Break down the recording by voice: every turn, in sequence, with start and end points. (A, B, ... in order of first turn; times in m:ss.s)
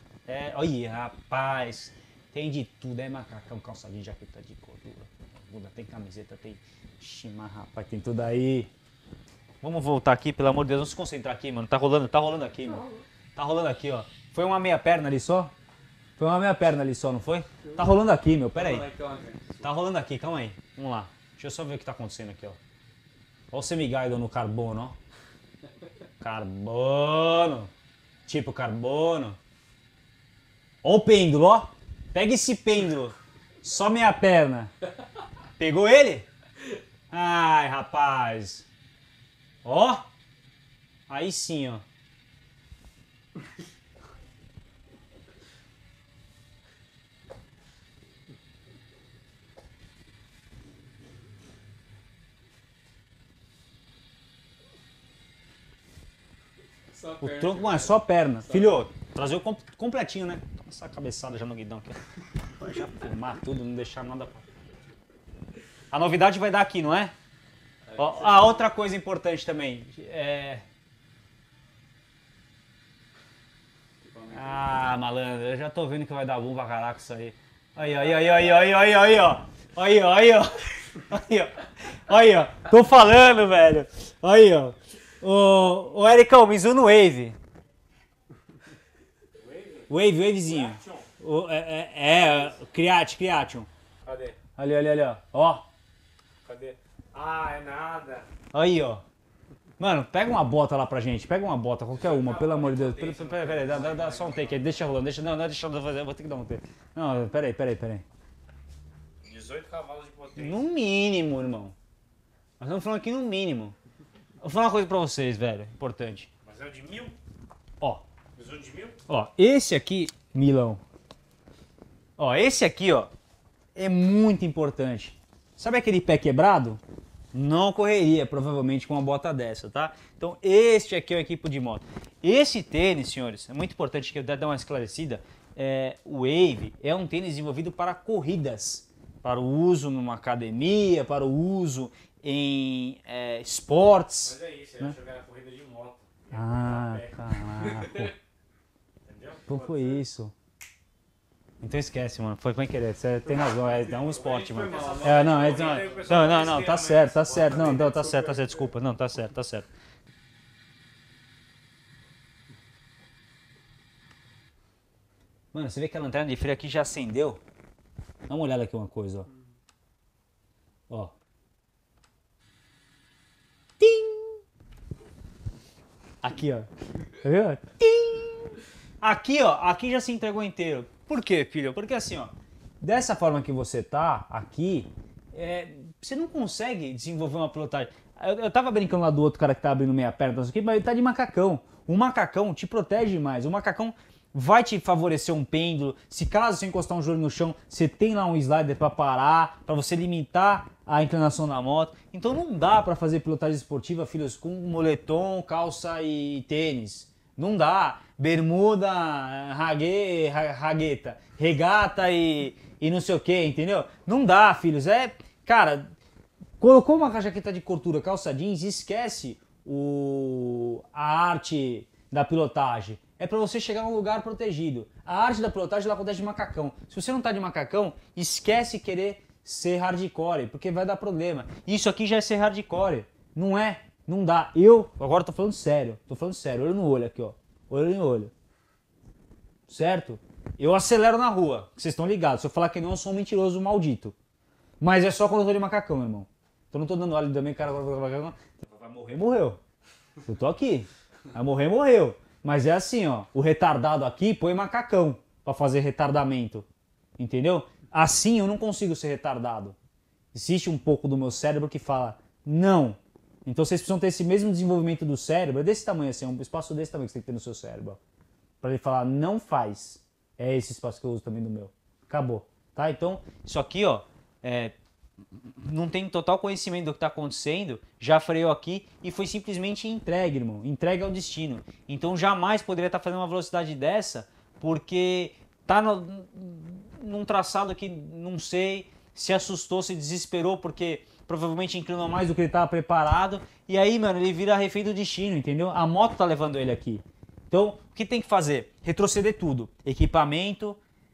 0:00.2-0:08.7 A
0:09.6-0:15.5 A
0:16.2-0:18.9 A
0:18.6-0:19.6 B
0:19.6-0:22.6 A
0:23.5-0:25.0 A
0:26.2-0:27.7 A
0:28.2-0:29.4 A
0:30.8-0:34.7 A
0:35.6-0:36.3 A
0:37.1-0:38.7 A
0:39.6-0:40.1 A
0:41.1-0:41.8 A
0:56.9-0:58.0 B
0:57.2-1:02.0 A
1:02.6-1:04.5 A
1:05.9-1:07.1 A
1:07.9-1:08.6 B
1:07.9-1:10.6 A
1:14.0-1:14.8 B
1:14.3-1:27.4 A
1:18.1-1:18.5 B
1:29.4-1:29.8 B
1:29.9-1:33.7 A
1:30.6-1:31.0 B
1:34.0-1:34.4 B
1:34.5-1:35.7 A
1:36.4-1:38.3 B
1:38.5-1:39.0 A
1:39.8-1:48.0 A
1:41.9-1:44.6 B
1:49.2-1:50.6 B
1:50.4-1:51.8 A
1:52.6-1:53.8 A
1:54.4-1:56.3 A
1:56.4-1:57.2 B
1:58.4-1:59.0 B
1:59.1-2:00.8 A
2:02.2-2:03.1 A
2:03.7-2:06.8 A
2:07.3-2:25.0 A
2:24.2-2:28.1 B
2:26.3-2:28.1 A
2:29.0-2:30.0 B
2:29.4-2:30.3 A
2:31.6-2:39.7 A
2:33.8-2:38.5 B
2:45.5-2:47.4 A
2:48.3-2:49.3 A
2:50.9-2:51.1 A
2:53.8-2:54.4 A
2:56.2-3:35.9 A
3:36.6-3:58.3 A
3:59.7-4:04.1 A
4:04.8-4:09.6 A
4:10.2-4:16.7 A
4:17.2-4:19.8 A
4:20.3-4:28.0 A
4:28.6-4:34.7 A
4:35.6-5:00.8 A